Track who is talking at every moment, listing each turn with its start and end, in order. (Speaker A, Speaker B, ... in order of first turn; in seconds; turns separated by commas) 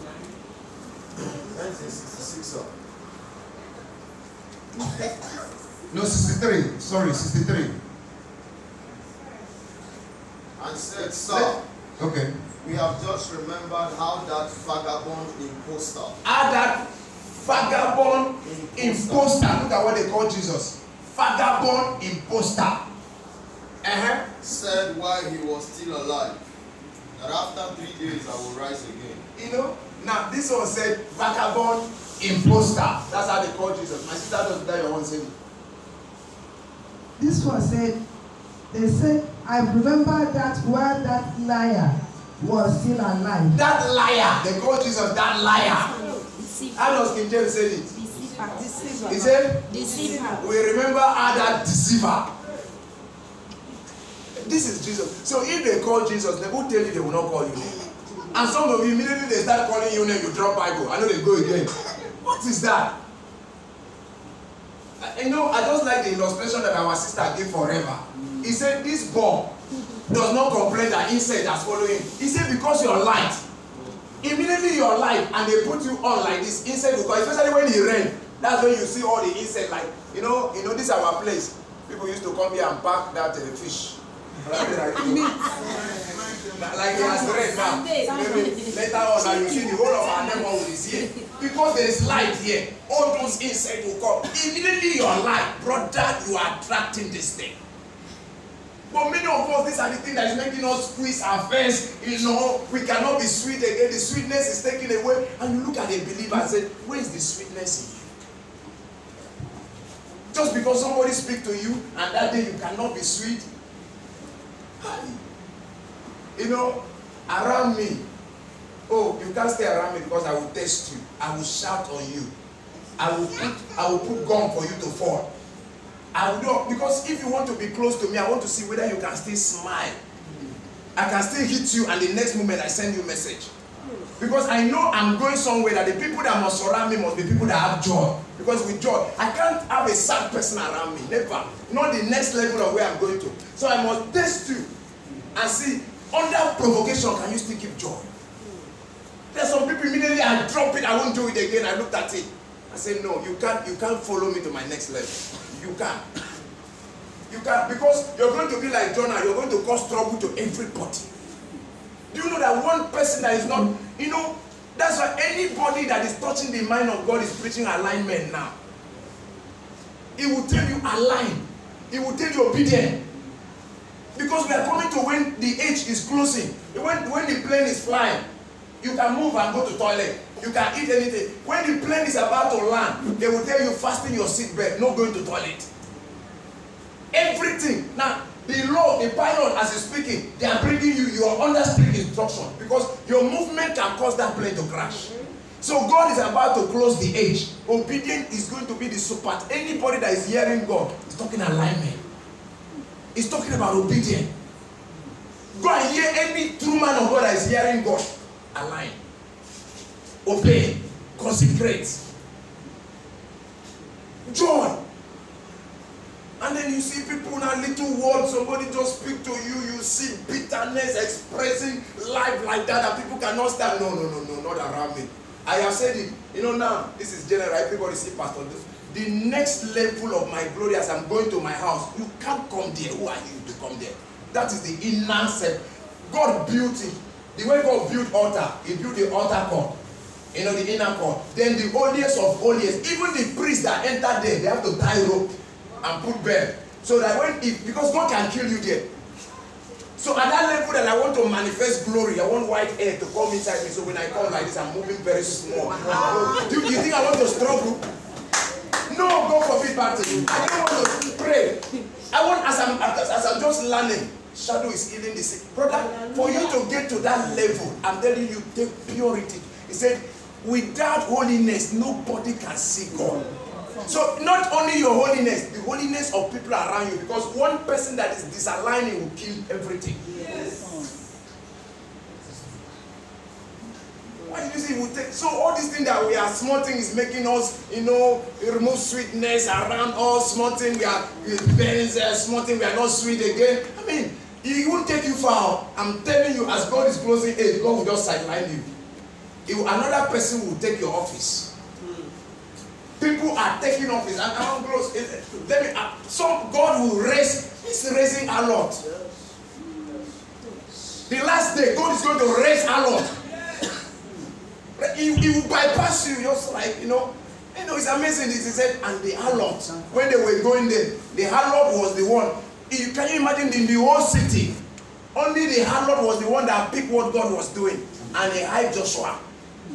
Speaker A: 1.5-2.7, Speaker B: 5.9-7.8, Speaker A: 10.6-11.6, Speaker B: 11.0-12.4, Speaker A: 12.6-16.2, Speaker B: 16.2-22.9, Speaker A: 18.4-19.6, Speaker B: 23.8-24.3, Speaker A: 24.4-26.4, Speaker A: 27.1-29.2, Speaker B: 29.3-35.3, Speaker C: 37.2-38.0, Speaker C: 38.7-43.6, Speaker B: 43.5-45.9, Speaker D: 45.7-47.1, Speaker B: 46.7-47.9, Speaker D: 47.9-50.5, Speaker B: 49.0-49.8, Speaker B: 50.3-52.3, Speaker B: 54.3-57.8, Speaker B: 58.3-63.0, Speaker B: 65.0-69.5, Speaker B: 70.1-73.4, Speaker B: 74.2-85.5, Speaker D: 85.2-85.9, Speaker B: 86.5-97.6, Speaker D: 86.9-90.3, Speaker B: 98.9-108.1, Speaker B: 110.3-113.5, Speaker B: 114.8-115.2, Speaker B: 116.3-118.0, Speaker B: 118.9-122.3, Speaker B: 123.0-125.3, Speaker B: 126.1-130.0, Speaker B: 130.9-133.5, Speaker B: 134.2-144.7, Speaker B: 145.3-148.1, Speaker B: 149.3-156.1, Speaker B: 157.3-161.1, Speaker B: 162.1-168.6, Speaker B: 170.2-173.1, Speaker B: 174.1-178.2, Speaker B: 178.8-185.7, Speaker B: 187.1-202.0, Speaker B: 203.1-204.3, Speaker B: 205.5-209.0, Speaker B: 210.2-212.0, Speaker B: 214.2-214.8, Speaker B: 216.4-239.8, Speaker B: 240.3-248.9, Speaker B: 250.0-257.9, Speaker D: 255.8-256.5, Speaker B: 258.9-273.2, Speaker D: 265.9-266.4, Speaker B: 273.8-280.1, Speaker B: 284.3-298.7, Speaker B: 299.4-301.5, Speaker B: 303.0-308.8, Speaker B: 311.1-313.2, Speaker B: 314.8-324.6, Speaker B: 325.1-329.2